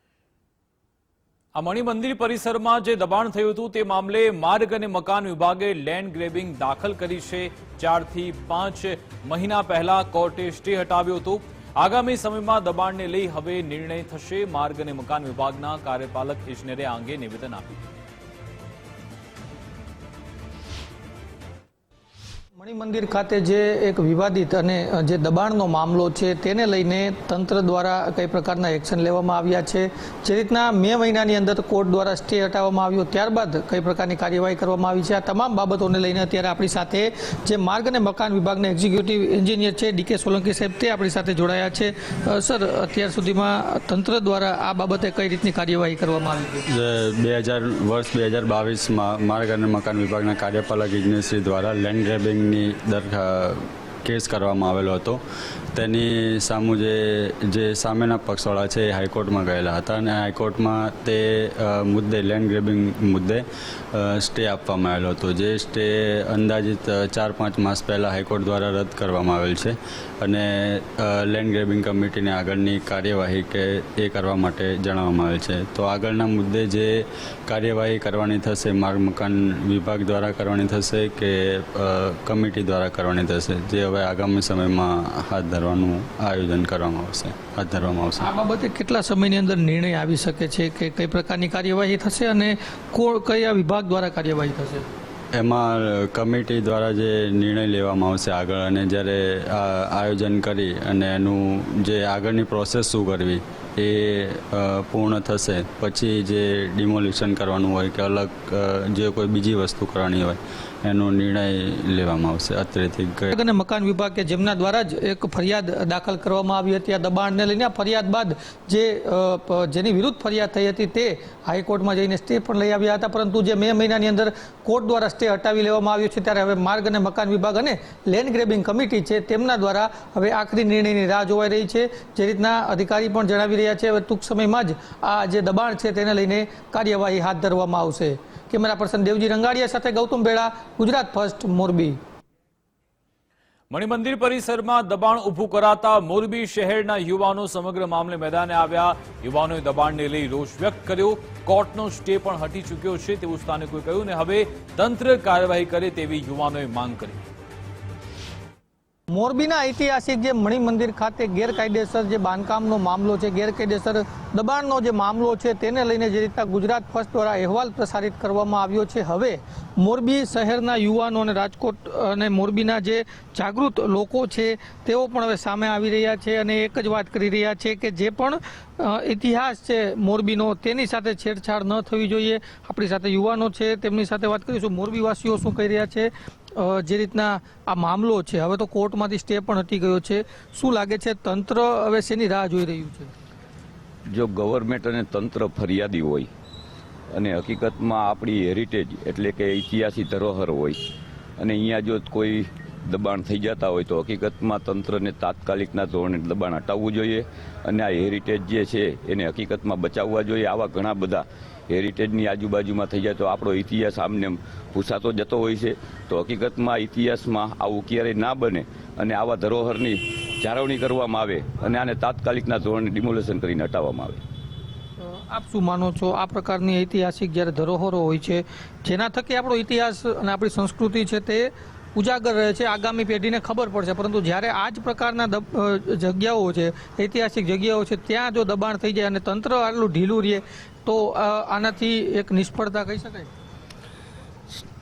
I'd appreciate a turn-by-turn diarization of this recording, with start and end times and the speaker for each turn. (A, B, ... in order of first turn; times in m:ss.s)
0:01.6-0:17.7 A
0:22.6-0:46.6 B
0:46.7-0:55.2 C
0:55.7-1:28.3 C
1:28.2-1:34.9 B
1:35.4-1:53.3 C
1:53.3-2:22.0 B
2:23.7-2:37.2 A
2:39.1-3:13.1 B
3:14.1-3:16.3 D
3:17.1-3:20.8 D
3:21.4-3:44.2 D
3:45.0-4:03.3 B